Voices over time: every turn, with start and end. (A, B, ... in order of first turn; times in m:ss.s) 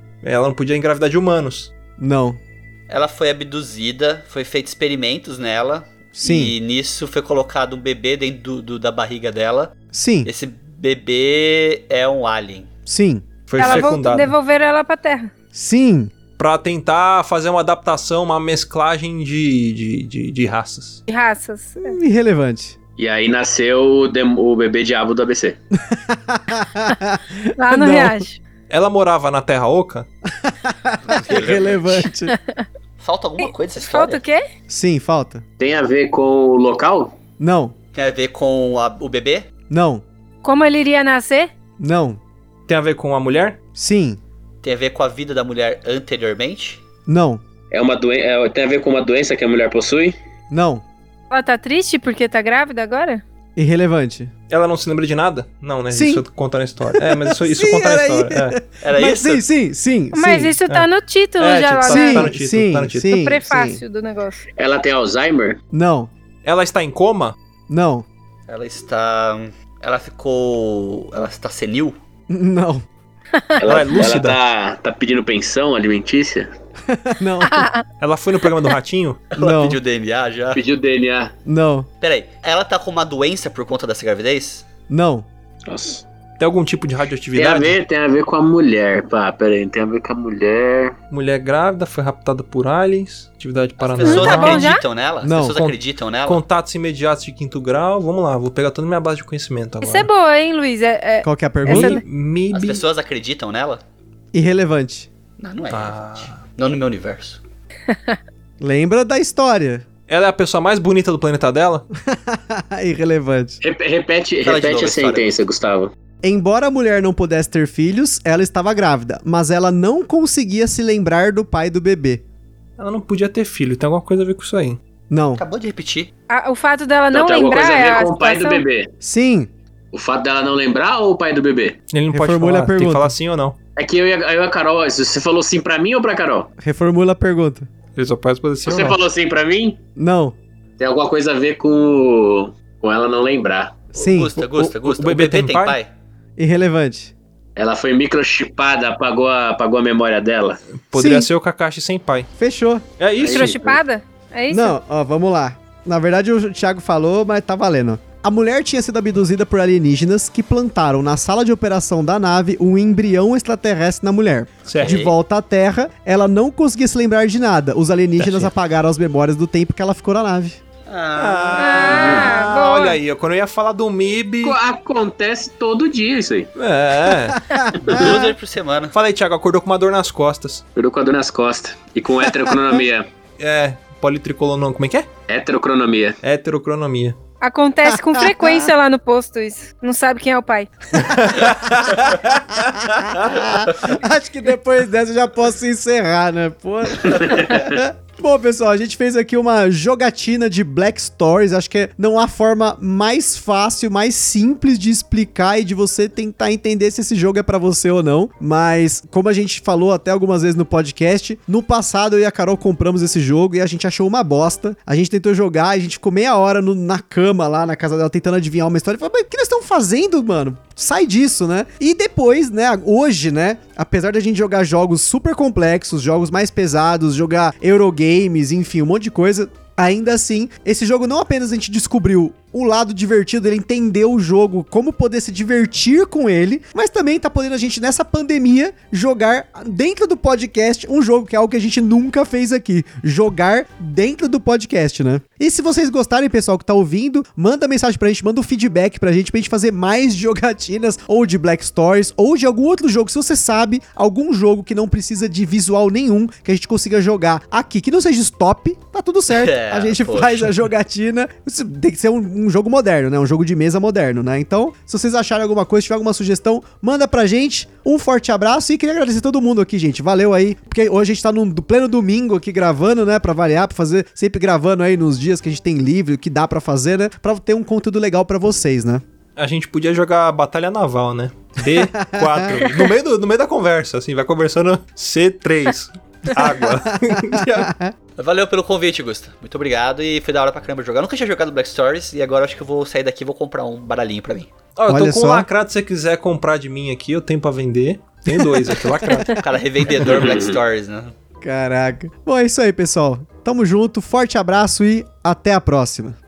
0:00.2-0:01.7 A
0:02.0-0:02.4 B
0:02.9-0:09.7 C
0:06.2-0:06.5 B
0:09.9-0:10.3 B
0:10.2-0:12.7 C
0:12.9-0:13.2 B
0:13.5-0:14.3 A
0:13.6-0:15.3 D
0:15.5-0:16.1 B
0:16.4-0:21.0 A
0:21.1-0:22.0 D
0:21.8-0:22.8 B
0:23.0-0:25.6 E
0:25.7-0:28.2 B
0:27.6-0:28.4 D
0:28.7-0:30.1 A
0:30.3-0:32.4 B
0:31.0-0:32.1 C
0:32.3-0:32.6 D
0:33.0-0:34.2 C
0:33.4-0:34.4 D
0:34.7-0:35.4 B
0:35.6-0:37.1 E
0:37.4-0:37.8 B
0:37.9-0:39.4 C
0:39.7-0:40.0 B
0:40.4-0:41.5 D
0:41.8-0:42.2 B
0:42.7-0:43.6 A
0:43.8-0:44.2 B
0:44.6-0:46.8 C
0:47.1-0:47.4 B
0:47.7-0:50.2 E
0:50.5-0:50.8 B
0:51.3-0:53.2 D
0:53.6-0:54.3 B
0:54.5-0:58.6 A
0:55.9-0:56.2 B
0:56.9-1:00.6 B
0:58.8-0:59.4 C
1:00.1-1:02.3 D
1:01.4-1:03.1 A
1:01.9-1:03.8 B
1:03.1-1:04.4 D
1:04.6-1:05.6 E
1:05.7-1:06.1 B
1:06.4-1:07.4 A
1:07.7-1:08.1 B
1:08.5-1:12.0 C
1:12.3-1:12.9 B
1:13.6-1:16.5 E
1:13.6-1:14.4 A
1:16.9-1:17.7 B
1:17.4-1:17.8 D
1:18.0-1:19.2 A
1:19.3-1:20.6 C
1:19.4-1:19.8 B
1:20.5-1:21.3 E
1:21.4-1:21.9 B
1:22.0-1:24.6 C
1:24.9-1:25.3 B
1:25.7-1:26.0 E
1:26.4-1:27.8 A
1:27.4-1:30.9 E
1:31.1-1:34.8 A
1:33.8-1:36.4 C
1:34.0-1:34.8 D
1:35.2-1:35.6 B
1:35.4-1:40.1 A
1:39.8-1:42.0 D
1:41.2-1:42.0 B
1:41.6-1:42.8 A
1:42.5-1:43.8 C
1:44.3-1:45.1 B
1:45.4-1:47.4 C
1:45.7-1:46.4 A
1:48.6-1:49.9 B
1:50.1-1:51.8 A
1:52.1-1:53.6 B
1:53.6-1:55.9 E
1:54.4-1:55.3 C
1:56.2-2:02.2 B
2:02.8-2:04.8 A
2:05.1-2:05.4 B
2:05.4-2:06.1 C
2:06.3-2:08.6 D
2:07.1-2:08.9 E
2:09.0-2:09.5 B
2:09.9-2:11.8 E
2:11.9-2:13.6 A
2:12.1-2:13.1 B
2:13.8-2:16.5 E
2:16.6-2:17.7 B
2:18.0-2:19.0 A
2:18.6-2:19.8 E
2:20.0-2:20.4 B
2:20.8-2:23.8 E
2:23.9-2:24.3 B
2:24.0-2:25.9 C
2:24.4-2:25.8 A
2:26.4-2:27.1 B
2:27.6-2:30.6 E
2:30.9-2:32.3 A
2:30.9-2:31.3 B
2:32.4-2:32.8 B
2:33.0-2:33.6 A
2:33.2-2:33.8 E
2:33.2-2:34.8 D
2:34.5-2:50.6 B
2:44.7-2:45.0 A
2:44.8-2:45.1 C
2:48.2-2:48.5 A
2:50.9-2:52.2 C
2:51.2-2:54.6 A
2:51.6-2:53.0 D
2:54.4-2:56.5 E
2:56.6-2:57.4 A
2:57.4-2:58.2 B
2:57.8-2:58.9 C
2:57.9-2:58.1 E
2:58.9-3:00.6 A
3:00.8-3:03.1 E
3:03.4-3:05.1 A
3:05.3-3:06.2 E
3:06.2-3:07.2 A
3:07.4-3:10.7 D
3:07.9-3:08.7 B
3:11.0-3:12.6 A
3:12.5-4:39.0 B
3:17.0-3:17.8 E
4:19.3-4:20.5 C
4:39.4-4:47.7 A
4:41.7-4:42.9 B
4:46.8-4:47.9 B
4:48.2-4:54.5 C
4:54.8-4:59.4 A
4:54.9-4:55.5 B
4:58.3-4:59.0 B
4:59.3-5:01.1 C
5:00.1-5:00.6 E
5:01.4-5:06.2 B